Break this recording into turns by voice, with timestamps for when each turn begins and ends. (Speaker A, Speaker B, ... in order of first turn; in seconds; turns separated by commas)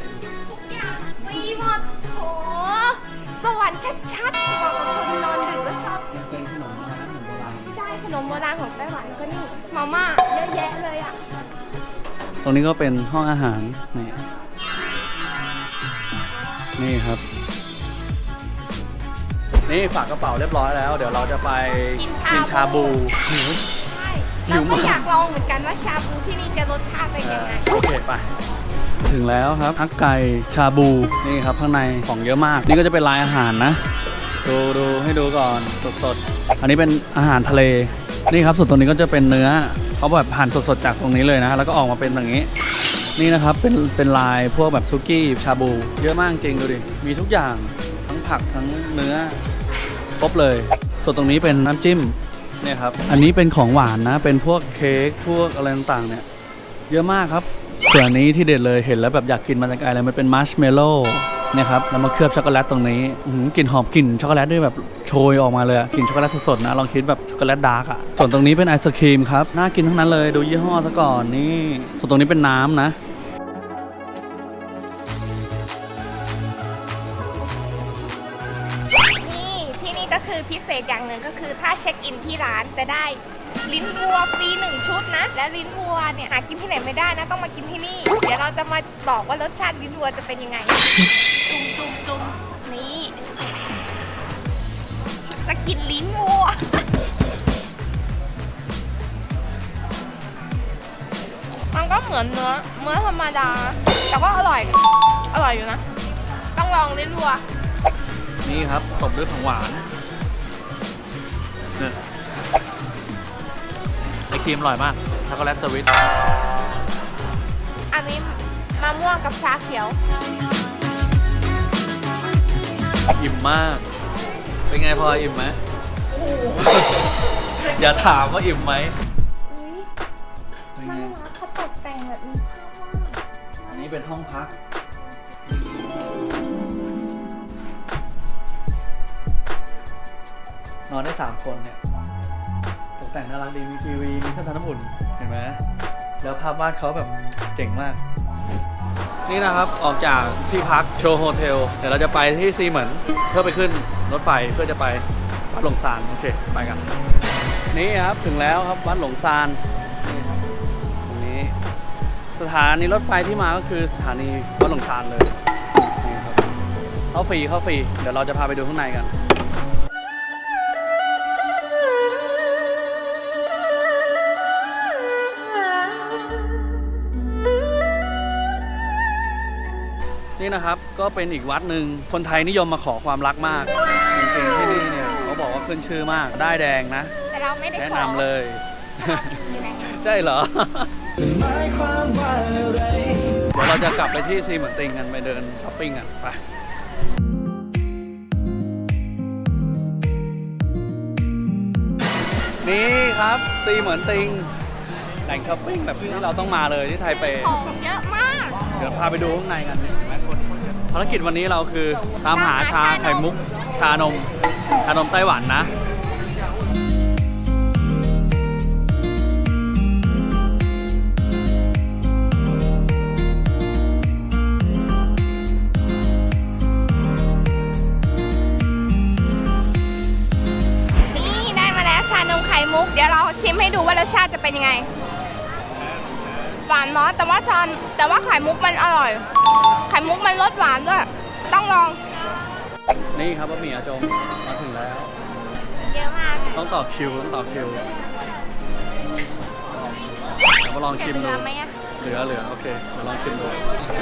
Speaker A: 0.4-6.1, Speaker B: 6.1-7.7, Speaker A: 7.7-11.2, Speaker B: 12.4-14.2, Speaker B: 16.8-17.2, Speaker B: 19.7-23.6, Speaker A: 22.0-23.0, Speaker A: 23.8-27.6, Speaker B: 24.5-25.1, Speaker B: 27.2-28.3, Speaker B: 29.0-33.8, Speaker B: 34.4-42.5, Speaker B: 43.1-49.4, Speaker B: 50.2-56.2, Speaker B: 56.9-73.0, Speaker A: 79.2-93.5, Speaker A: 95.2-96.8, Speaker A: 101.7-104.8, Speaker A: 105.3-105.8, Speaker A: 106.5-107.4, Speaker B: 108.4-109.9, Speaker B: 114.3-115.9, Speaker A: 117.9-120.0, Speaker B: 123.1-123.8, Speaker B: 124.7-125.6, Speaker A: 126.2-126.5, Speaker B: 126.5-128.9, Speaker A: 129.5-129.9, Speaker B: 130.8-131.2, Speaker A: 130.8-133.2, Speaker B: 133.7-134.5, Speaker B: 135.5-136.1, Speaker B: 140.9-141.8, Speaker B: 143.0-145.6, Speaker B: 146.2-148.0, Speaker B: 149.2-156.8, Speaker B: 157.7-160.4, Speaker B: 161.0-161.5, Speaker B: 162.3-166.4, Speaker B: 167.1-169.1, Speaker B: 180.4-187.1, Speaker A: 187.3-188.2, Speaker B: 187.8-191.1, Speaker A: 189.0-190.0, Speaker C: 191.2-193.4, Speaker B: 193.0-196.4, Speaker B: 202.6-204.5, Speaker B: 205.2-207.5, Speaker A: 207.1-208.6, Speaker B: 208.7-210.4, Speaker B: 210.9-214.3, Speaker A: 212.2-213.2, Speaker B: 214.8-215.7, Speaker A: 231.1-234.9, Speaker A: 236.6-239.2, Speaker A: 239.8-242.0, Speaker B: 243.1-245.1, Speaker A: 245.8-246.6, Speaker B: 246.5-247.8, Speaker B: 250.6-251.4, Speaker A: 250.9-251.8, Speaker B: 252.0-253.7